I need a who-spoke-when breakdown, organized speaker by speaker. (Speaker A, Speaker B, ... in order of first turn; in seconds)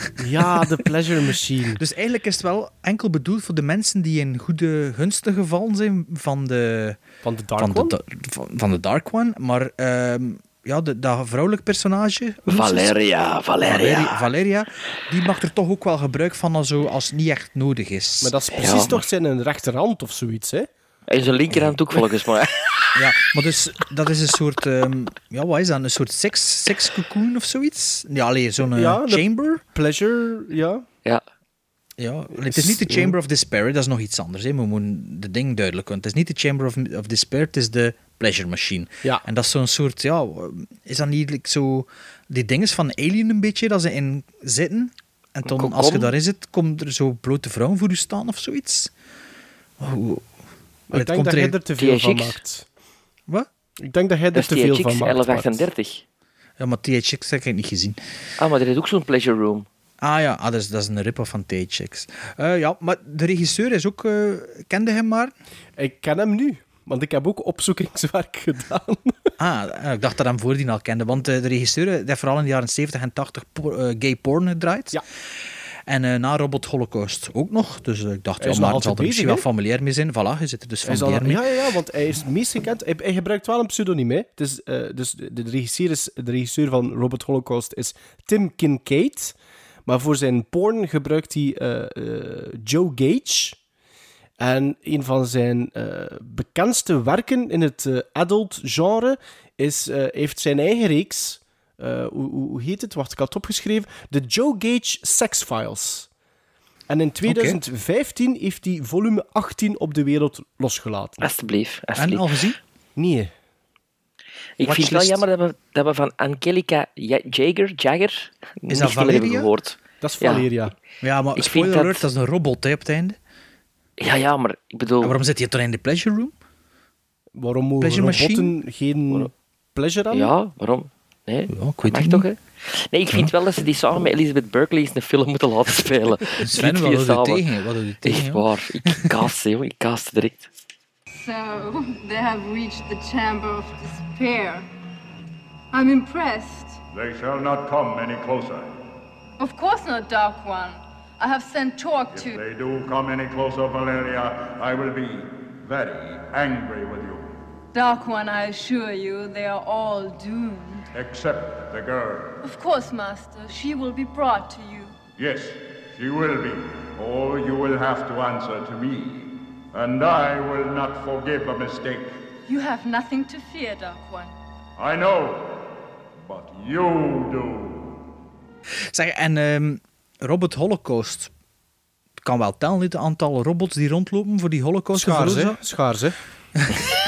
Speaker A: 0.2-1.8, 7.2-8.0, 18.2-20.7, 28.7-30.8, 32.5-33.2, 50.9-52.6, 53.8-55.5, 65.8-69.1, 78.4-79.4, 80.9-89.3, 89.9-93.6, 94.4-106.1, 106.9-111.2, 113.0-113.3, 120.0-120.7, 127.4-130.3, 184.9-186.2
Speaker B: 1.8-7.0, 7.6-12.9, 13.7-18.4, 21.5-21.8, 22.9-29.6, 32.0-48.9, 49.8-50.3, 50.9-51.6, 56.6-58.0, 60.0-65.3, 69.4-75.0, 75.9-81.4, 107.2-107.6, 112.0-112.6, 114.6-115.2, 118.7-119.5, 121.0-123.2, 125.0-126.3, 127.8-128.6, 131.5-132.3, 136.4-138.4, 178.9-181.3, 182.2-185.6
Speaker C: 12.5-14.2, 18.5-18.9, 21.1-22.9, 45.5-46.1, 51.8-52.4, 54.3-56.0, 58.4-59.7, 111.2-112.2, 114.6-120.5, 121.4-122.1, 124.0-125.2, 130.1-137.4, 138.0-140.5
Speaker D: 141.1-144.7, 145.7-146.7, 149.4-152.2, 157.8-160.8, 162.5-164.9, 172.5-174.3
Speaker E: 146.9-148.8, 152.0-157.4, 160.9-162.6, 165.2-172.2, 174.8-175.7, 176.2-178.0